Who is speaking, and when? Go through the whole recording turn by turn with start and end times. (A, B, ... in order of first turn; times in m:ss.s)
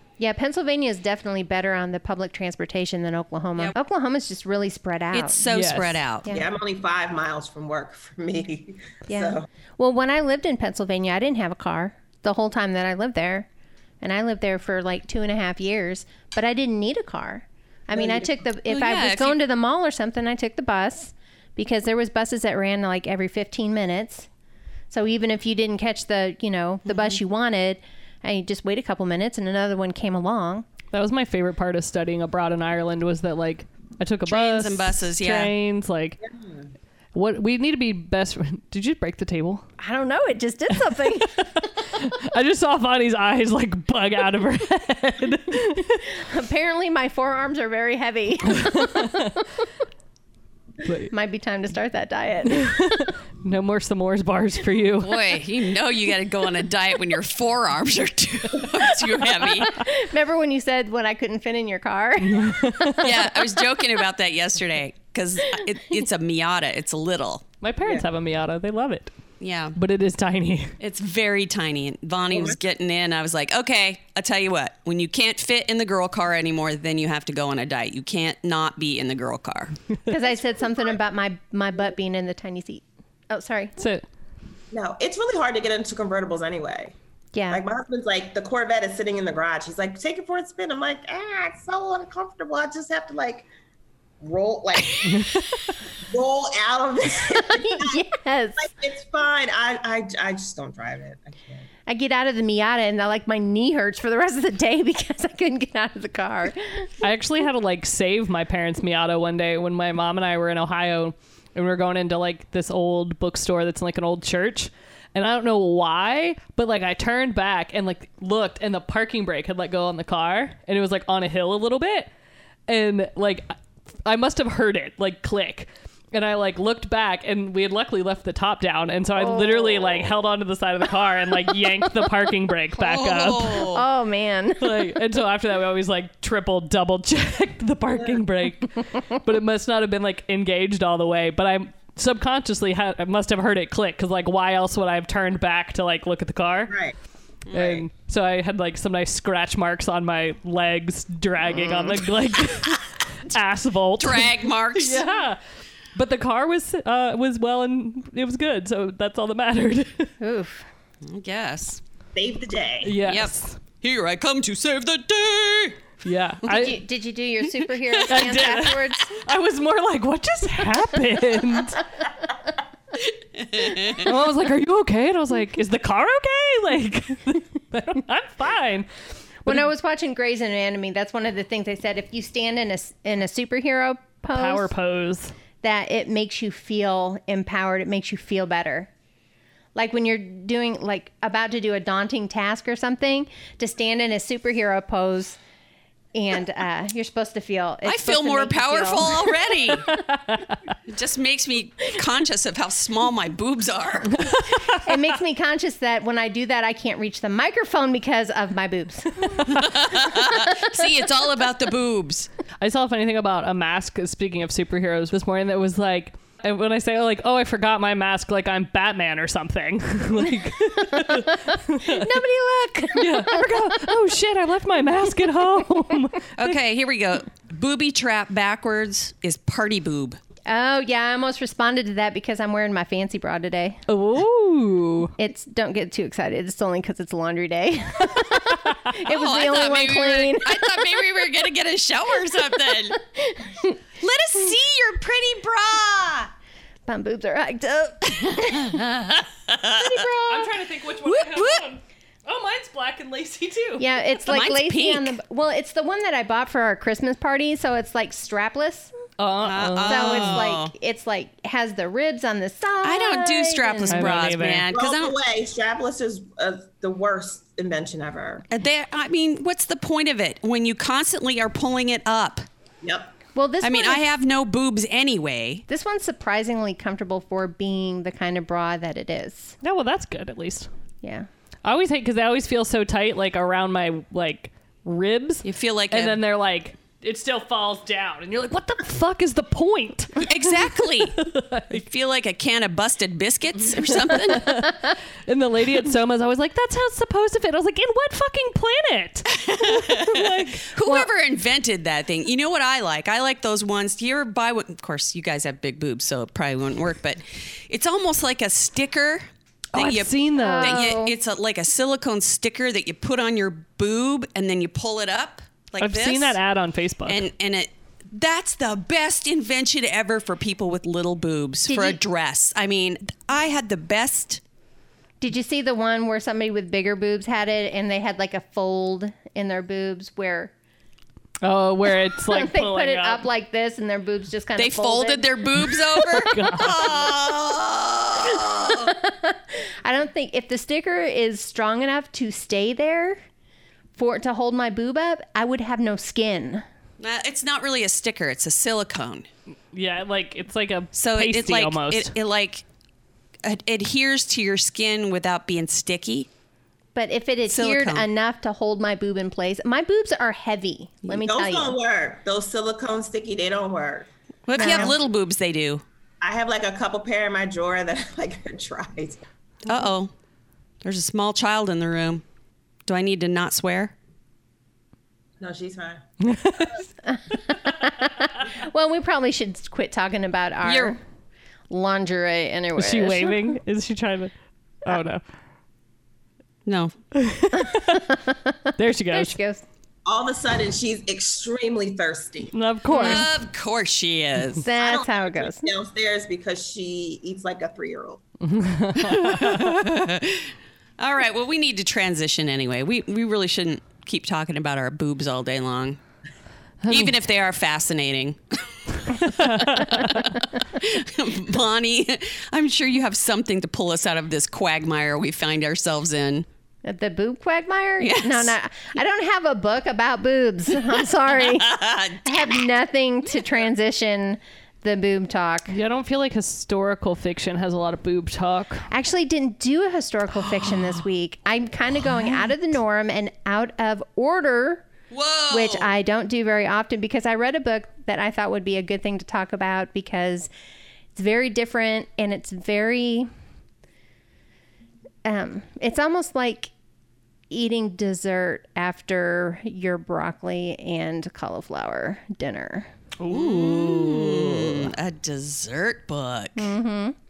0:00.2-0:05.4 A
0:05.1-0:06.2 B
0:05.5-0:06.0 C
0:06.3-0:09.5 D
0:09.1-0:13.5 A
0:14.0-0:24.3 A
0:17.9-0:18.3 D
0:18.7-0:19.4 B
0:24.9-0:30.6 A
0:26.9-0:27.2 B
0:30.9-0:36.2 C
0:34.3-0:35.5 B
0:36.2-0:36.6 D
0:37.1-0:39.6 C
0:39.8-0:41.7 A
0:40.9-0:46.1 C
0:46.0-0:49.4 A
0:48.5-0:49.3 C
0:50.8-0:51.1 C
0:51.1-0:52.8 A
0:52.5-0:55.2 C
0:55.0-0:59.8 B
0:59.4-1:03.4 A
1:02.2-1:03.2 C
1:03.0-1:07.5 B
1:07.6-1:09.1 C
1:09.4-1:09.7 B
1:09.7-1:10.8 C
1:10.8-1:19.8 B
1:12.3-1:12.6 D
1:20.1-1:23.8 A
1:23.8-1:24.0 C
1:24.7-1:26.9 D
1:27.3-1:27.6 A
1:27.5-1:33.5 D
1:34.2-1:35.4 D
1:36.0-1:38.0 D
1:37.3-1:38.7 A
1:38.6-1:41.7 D
1:41.9-1:46.9 A
1:47.0-2:02.1 C
2:02.7-2:03.5 C
2:04.0-2:13.7 C
2:09.2-2:10.0 A
2:12.8-2:13.8 B
2:13.7-2:14.9 A
2:14.6-2:26.8 C
2:26.7-2:26.9 D
2:27.5-2:27.8 B
2:27.5-2:35.4 C
2:31.7-2:32.0 B
2:34.0-2:35.1 B
2:35.9-2:40.1 C
2:40.2-2:40.6 A
2:41.0-2:41.8 B
2:42.1-2:43.0 D
2:42.8-2:43.6 C
2:43.0-2:45.9 B
2:46.0-2:46.8 C
2:46.5-2:49.1 A
2:48.1-2:51.9 C
2:53.4-2:54.1 B
2:53.9-2:58.9 C
2:59.4-3:04.7 A
3:04.3-3:05.3 C
3:05.6-3:08.9 A
3:09.7-3:15.4 A
3:16.1-3:20.0 A
3:17.8-3:19.9 B
3:19.8-3:20.7 C
3:20.9-3:24.5 B
3:24.2-3:24.9 C
3:24.7-3:29.7 A
3:29.3-3:29.7 C
3:29.4-3:32.3 B
3:32.6-3:42.1 C
3:40.9-3:43.8 A
3:42.9-3:46.6 C
3:46.4-3:50.2 B
3:50.5-3:53.8 A
3:53.9-3:55.1 C
3:55.2-4:01.0 A
3:59.0-4:03.0 B
4:03.1-4:03.7 A
4:04.0-4:06.3 B
4:06.9-4:08.8 A
4:08.4-4:10.1 B
4:09.8-4:10.4 A
4:10.3-4:13.9 C
4:11.0-4:11.6 B
4:13.8-4:18.9 A
4:14.3-4:15.2 B
4:19.2-4:20.5 C
4:19.4-4:20.7 B
4:19.9-4:24.2 A
4:22.8-4:25.2 B
4:23.9-4:24.7 C
4:24.7-4:28.4 D
4:28.5-4:32.5 B
4:32.8-4:33.2 D
4:33.3-4:34.1 A
4:33.6-4:35.6 B
4:35.7-4:39.6 A
4:39.6-4:40.7 C
4:41.0-4:41.3 A
4:41.6-4:51.8 C
4:45.4-4:46.2 B
4:50.2-4:51.2 B
4:51.7-4:54.6 B
4:53.9-5:00.7 C
4:59.3-5:16.4 B
5:09.7-5:10.9 C
5:10.4-5:11.1 A
5:15.8-5:17.2 C
5:17.0-5:24.4 B
5:21.7-5:22.0 A
5:25.2-5:30.5 A
5:31.4-5:33.3 C
5:32.3-5:36.3 A
5:34.6-5:38.9 B
5:36.2-5:36.9 C
5:38.3-5:43.2 A
5:44.0-5:46.6 A
5:47.0-5:49.3 B
5:49.7-5:52.1 C
5:50.9-5:52.6 B
5:53.4-5:56.3 B
5:56.9-6:01.7 A
5:57.5-5:58.0 B
6:01.1-6:04.9 D
6:04.5-6:05.8 B
6:04.6-6:04.9 A
6:06.2-6:09.2 D
6:09.6-6:10.1 B
6:10.8-6:12.2 B
6:12.9-6:13.9 B
6:15.4-6:16.0 D
6:16.2-6:16.8 C
6:17.0-6:21.0 A
6:20.6-6:20.9 B
6:21.7-6:23.6 A
6:22.8-6:24.3 C
6:24.8-6:25.2 C
6:26.6-6:27.0 B
6:27.1-6:28.1 C
6:27.7-6:29.6 A
6:28.8-6:29.4 C
6:30.0-6:32.5 D
6:32.5-6:33.3 C
6:32.9-6:33.2 A
6:32.9-6:34.6 B
6:34.6-6:35.7 A
6:34.8-6:38.2 D
6:38.4-6:39.8 C
6:39.0-6:46.0 B
6:46.8-6:47.1 C
6:46.9-6:56.4 B
6:49.1-6:50.3 C
6:56.8-7:05.7 A
6:58.0-6:58.5 B
7:01.4-7:02.6 B
7:05.7-7:08.9 C
7:08.9-7:14.8 A
7:15.1-7:15.9 B
7:15.5-7:20.5 A
7:21.1-7:23.3 A
7:25.2-7:26.7 A
7:27.5-7:32.9 A
7:33.2-7:34.9 C
7:33.3-7:36.7 B
7:36.6-7:37.2 A